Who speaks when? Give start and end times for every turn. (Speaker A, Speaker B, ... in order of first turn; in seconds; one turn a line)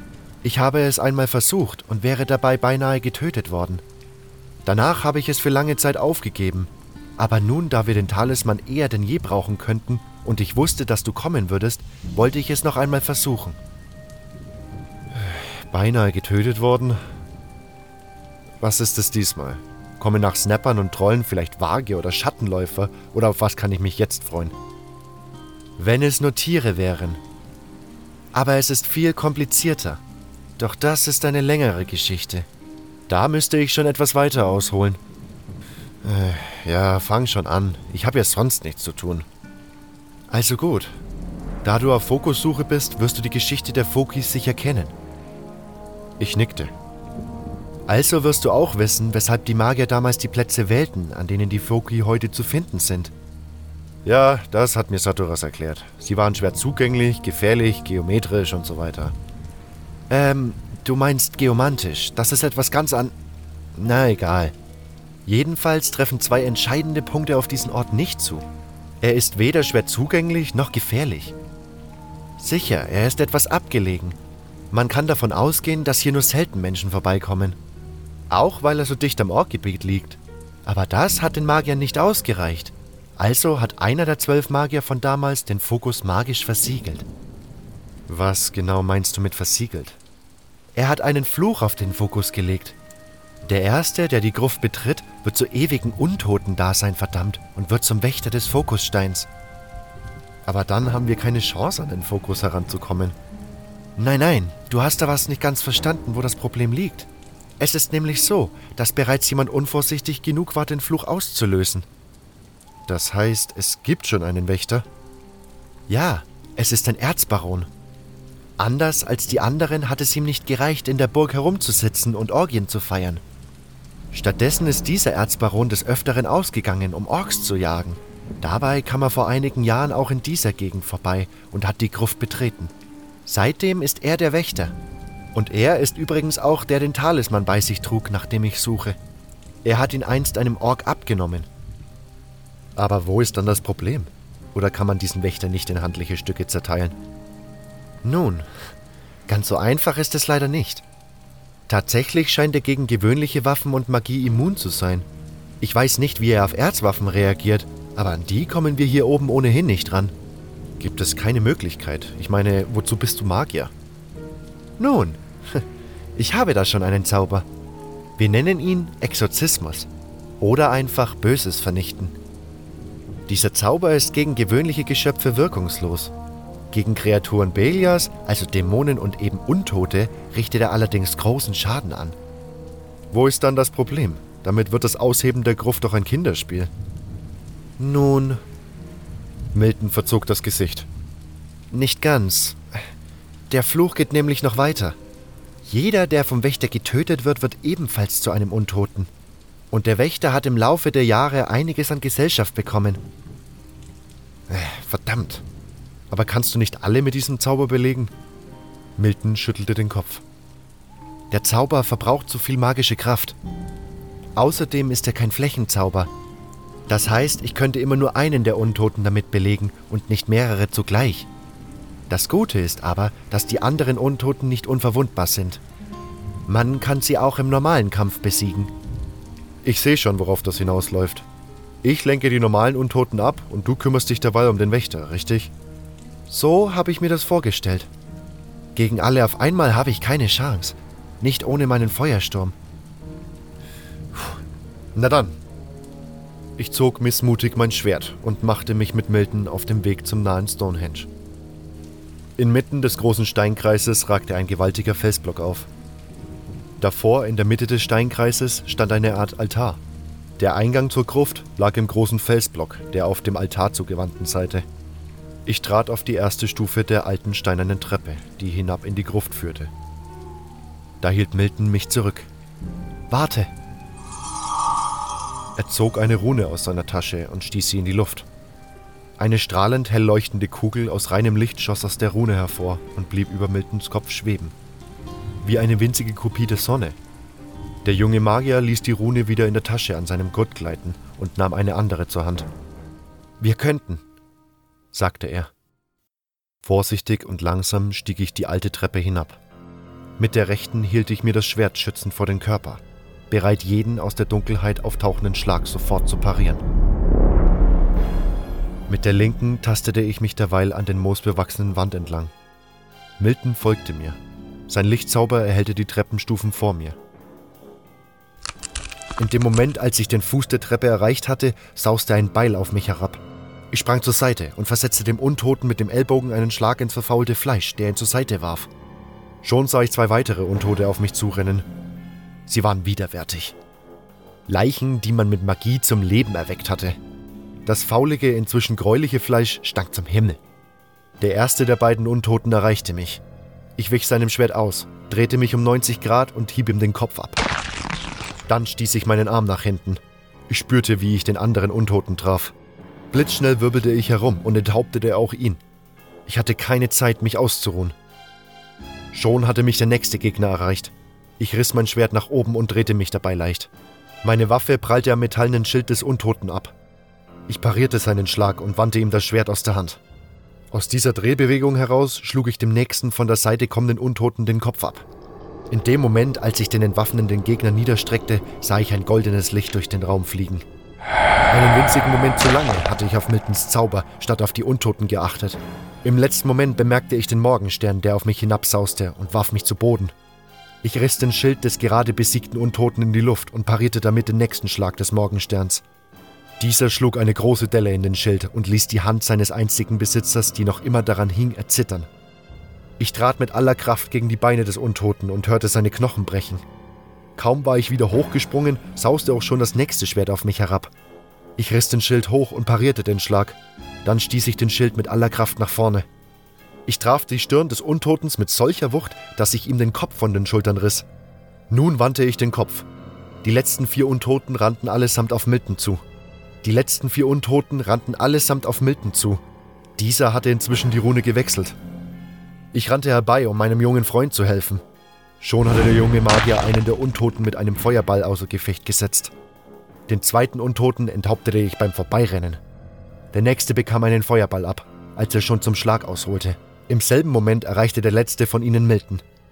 Speaker A: 0.4-3.8
Speaker A: 4.6-13.6
Speaker A: 15.1-17.0
Speaker A: 18.6-24.5
Speaker A: 25.8-27.2
Speaker A: 28.3-30.0
Speaker A: 30.6-32.5
Speaker A: 33.1-35.0
Speaker A: 36.0-39.2
Speaker A: 40.3-41.0
Speaker A: 41.6-44.9
Speaker A: 46.2-46.7
Speaker A: 47.9-53.1
Speaker A: 54.0-59.1
Speaker A: 60.1-63.1
Speaker A: 63.7-64.5
Speaker A: 65.2-68.4
Speaker A: 69.0-71.3
Speaker A: 72.4-74.2
Speaker A: 74.7-77.6
Speaker A: 78.3-87.1
Speaker A: 88.1-90.0
Speaker A: 90.7-92.8
Speaker A: 93.4-99.3
Speaker A: 100.4-103.2
Speaker A: 104.0-111.9
Speaker A: 112.9-114.8
Speaker A: 115.9-117.7
Speaker A: 118.6-123.2
Speaker A: 124.1-132.7
Speaker A: 133.2-134.8
Speaker A: 135.3-139.0
Speaker A: 139.6-141.5
Speaker A: 142.8-147.0
Speaker A: 148.0-148.5
Speaker A: 149.3-150.8
Speaker A: 151.7-155.1
Speaker A: 155.6-160.1
Speaker A: 160.8-163.7
Speaker A: 164.8-167.4
Speaker A: 168.2-172.1
Speaker A: 173.3-176.1
Speaker A: 176.7-182.2
Speaker A: 183.1-186.7
Speaker A: 187.8-188.4
Speaker A: 189.5-190.9
Speaker A: 191.7-192.8
Speaker A: 193.5-195.0
Speaker A: 195.6-199.1
Speaker A: 199.7-203.0
Speaker A: 204.5-205.4
Speaker A: 206.1-208.1
Speaker A: 209.0-210.2
Speaker A: 211.3-213.3
Speaker A: 214.3-216.1
Speaker A: 216.9-221.3
Speaker A: 222.1-225.6
Speaker A: 226.5-228.7
Speaker A: 229.6-231.3
Speaker A: 231.8-235.5
Speaker A: 236.3-237.9
Speaker A: 238.7-242.5
Speaker A: 244.9-245.4
Speaker A: 246.6-251.1
Speaker A: 252.4-255.7
Speaker A: 256.8-259.8
Speaker A: 260.4-264.6
Speaker A: 265.4-269.7
Speaker A: 271.0-272.3
Speaker A: 273.1-273.5
Speaker A: 275.6-278.3
Speaker A: 279.2-284.5
Speaker A: 285.4-287.0
Speaker A: 287.8-292.5
Speaker A: 293.4-294.0
Speaker A: 294.9-295.5
Speaker A: 296.6-299.4
Speaker A: 300.2-306.6
Speaker A: 308.9-312.3
Speaker A: 313.2-314.2
Speaker A: 314.7-317.0
Speaker A: 319.2-328.7
Speaker A: 329.4-331.7
Speaker A: 332.5-333.6
Speaker A: 334.5-337.0
Speaker A: 337.6-340.4
Speaker A: 341.2-343.2
Speaker A: 343.8-347.4
Speaker A: 348.5-352.5
Speaker A: 353.1-355.6
Speaker A: 356.2-357.9
Speaker A: 359.1-363.7
Speaker A: 364.2-366.7
Speaker A: 367.5-370.0
Speaker A: 370.7-375.0
Speaker A: 375.7-380.6
Speaker A: 381.5-390.1
Speaker A: 390.8-395.8
Speaker A: 396.6-402.1
Speaker A: 403.0-406.6
Speaker A: 407.4-410.9
Speaker A: 411.6-416.1
Speaker A: 416.9-421.1
Speaker A: 421.7-422.9
Speaker A: 423.4-426.0
Speaker A: 426.6-429.4
Speaker A: 430.0-431.8
Speaker A: 432.7-434.8
Speaker A: 435.4-439.3
Speaker A: 440.1-442.6
Speaker A: 443.3-449.2